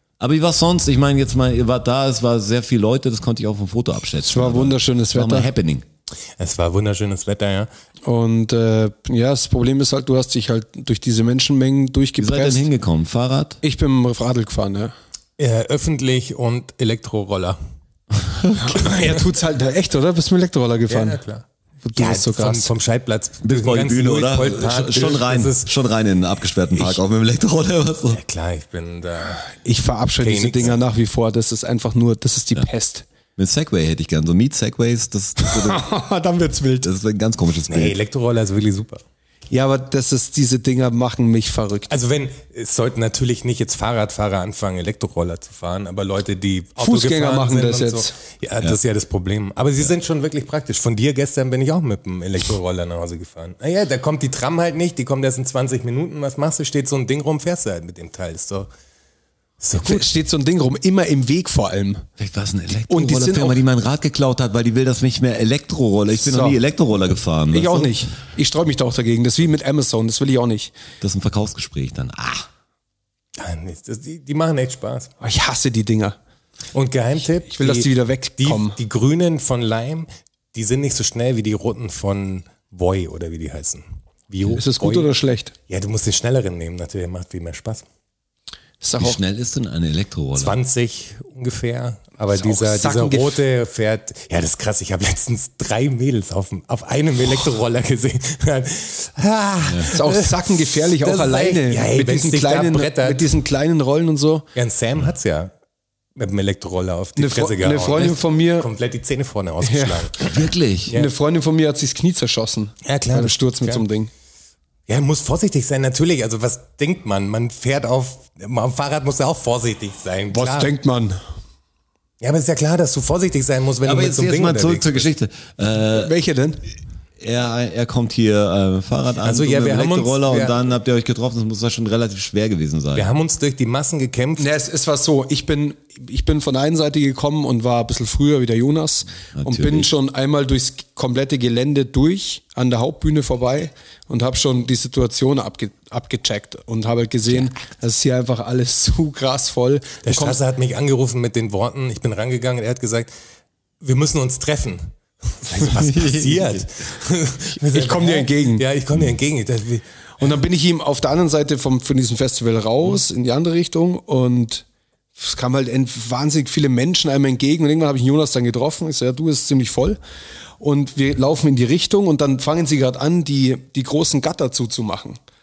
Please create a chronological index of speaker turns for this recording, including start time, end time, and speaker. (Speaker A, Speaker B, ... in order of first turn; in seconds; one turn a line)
Speaker A: 0.2-5.9
Speaker B: 4.2-5.5
Speaker C: 6.4-7.7
Speaker B: 8.1-12.7
Speaker A: 12.2-13.6
Speaker B: 13.6-14.9
Speaker C: 15.4-17.6
Speaker B: 18.6-21.2
Speaker C: 18.8-19.2
Speaker C: 20.9-21.4
Speaker B: 21.9-22.7
Speaker C: 22.0-25.7
Speaker A: 23.4-28.2
Speaker C: 28.1-29.6
Speaker B: 29.6-33.1
Speaker C: 30.2-30.8
Speaker A: 33.4-35.9
Speaker B: 35.4-36.9
Speaker A: 36.8-38.0
Speaker C: 37.7-39.0
Speaker B: 39.5-41.9
Speaker C: 41.9-58.7
Speaker B: 46.8-48.1
Speaker C: 59.6-60.1
Speaker B: 59.8-62.0
Speaker A: 62.2-68.0
Speaker B: 62.9-63.6
Speaker B: 66.2-66.6
Speaker B: 67.5-70.7
Speaker A: 71.0-72.5
Speaker C: 73.4-75.1
Speaker B: 75.2-76.2
Speaker C: 76.7-77.9
Speaker B: 77.5-78.8
Speaker C: 78.4-85.1
Speaker B: 84.6-85.5
Speaker C: 85.7-87.8
Speaker B: 88.8-89.2
Speaker A: 89.0-90.6
Speaker C: 90.3-103.2
Speaker B: 92.4-93.4
Speaker A: 99.7-99.9
Speaker B: 99.9-104.5
Speaker C: 104.5-105.5
Speaker C: 106.2-110.3
Speaker B: 107.2-108.7
Speaker B: 109.6-110.3
Speaker A: 110.2-111.0
Speaker B: 110.9-114.1
Speaker C: 112.8-113.8
Speaker C: 114.9-120.7
Speaker B: 120.3-121.2
Speaker C: 122.2-125.1
Speaker A: 123.8-126.1
Speaker B: 125.9-126.6
Speaker A: 127.2-133.1
Speaker C: 129.2-130.6
Speaker C: 132.9-134.6
Speaker B: 134.4-150.4
Speaker A: 139.3-139.9
Speaker C: 150.1-153.1
Speaker C: 153.8-159.8
Speaker A: 155.8-156.6
Speaker B: 157.7-158.6
Speaker B: 160.2-164.7
Speaker B: 165.2-170.0
Speaker B: 170.6-175.2